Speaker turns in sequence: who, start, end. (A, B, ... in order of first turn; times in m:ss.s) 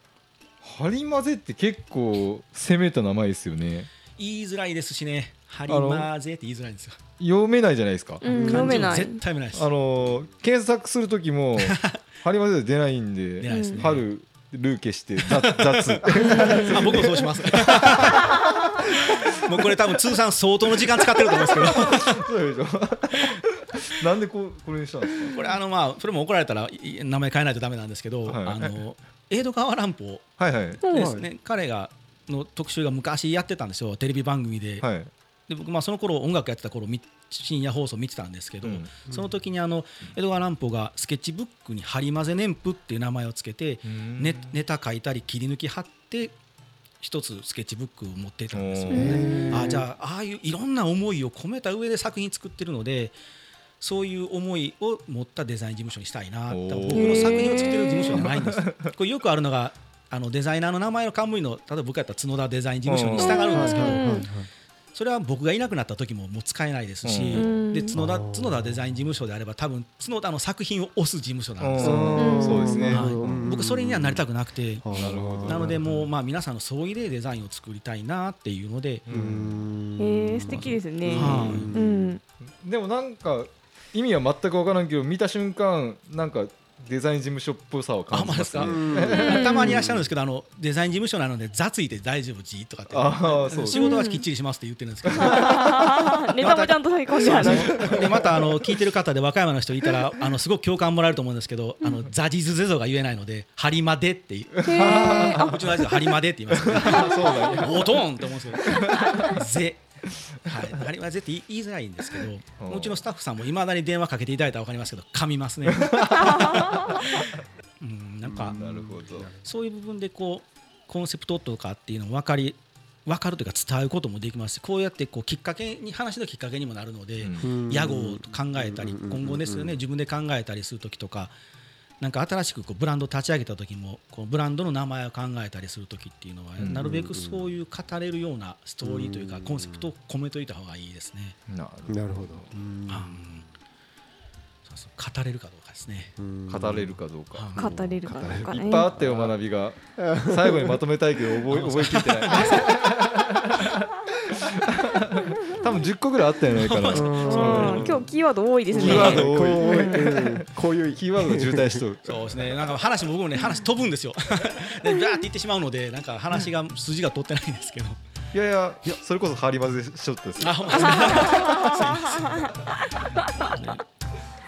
0:00.6-0:03.9 A
0:04.2-0:07.0 B
0:05.7-0:06.1 A
0:07.2-0:08.8 A
0:08.2-0:09.2 C
0:08.3-0:09.7 B
0:08.3-0:08.6 D
0:09.5-0:19.7 A
0:11.6-0:12.0 B
0:13.4-0:14.1 B
0:13.5-0:13.8 C
0:15.2-0:22.3 B
0:16.2-0:16.9 C
0:21.3-0:25.5 A
0:25.3-0:34.9 B
0:28.3-0:28.8 A
0:30.4-0:30.8 A
0:30.8-0:31.1 C
0:30.9-0:31.3 D
0:34.8-0:35.1 A
0:35.5-0:46.4 B
0:38.6-0:38.9 A
0:43.8-0:44.6 A
0:47.0-0:53.2 B
0:48.5-0:49.2 A
0:48.9-0:49.4 C
0:48.9-0:49.9 D
0:53.8-1:04.3 B
0:56.5-0:58.9 A
0:56.9-0:58.3 C
1:02.8-1:03.8 A
1:03.2-1:04.3 C
1:03.5-1:04.5 D
1:04.9-1:19.0 B
1:07.0-1:07.6 A
1:07.4-1:08.0 C
1:07.9-1:08.8 D
1:11.6-1:13.6 A
1:11.8-1:14.2 D
1:12.2-1:12.9 C
1:14.8-1:15.8 D
1:14.9-1:16.1 A
1:19.1-1:19.7 A
1:19.1-1:22.2 D
1:20.0-1:22.2 C
1:21.1-1:21.7 B
1:21.2-1:21.6 A
1:22.6-1:30.1 A
1:28.1-1:49.8 B
1:28.6-1:29.2 D
1:29.1-1:29.9 C
1:32.9-1:34.0 A
1:33.7-1:34.2 C
1:35.0-1:36.0 A
1:35.2-1:37.9 C
1:37.2-1:38.6 A
1:44.6-1:46.1 C
1:44.7-1:46.0 A
1:46.5-1:49.4 A
1:46.7-1:47.6 C
1:48.7-1:49.3 C
1:50.4-1:58.8 B
1:52.6-1:53.1 A
1:55.7-1:56.7 A
1:56.2-1:57.0 C
1:58.2-1:59.4 D
1:58.6-1:59.3 A
1:59.4-2:11.3 B
2:07.2-2:07.5 A
2:07.4-2:09.8 D
2:12.0-2:21.4 B
2:16.6-2:17.0 A
2:16.8-2:17.5 D
2:18.8-2:19.9 D
2:21.5-2:22.5 A
2:21.9-2:23.2 D
2:22.9-2:23.5 B
2:24.7-2:26.2 B
2:26.2-2:27.0 D
2:26.5-2:27.5 A
2:27.3-2:27.7 B
2:27.6-2:29.4 D
2:27.6-2:28.9 C
2:28.5-2:38.0 A
2:30.0-2:30.8 D
2:31.5-2:32.9 B
2:33.5-2:33.8 B
2:36.5-2:37.9 B
2:36.9-2:38.1 D
2:37.2-2:40.1 C
2:38.7-2:41.8 D
2:38.8-2:42.4 A
2:38.8-2:39.2 B
2:42.0-2:48.0 B
2:48.3-2:51.4 A
2:50.4-2:53.8 B
2:51.0-2:52.5 C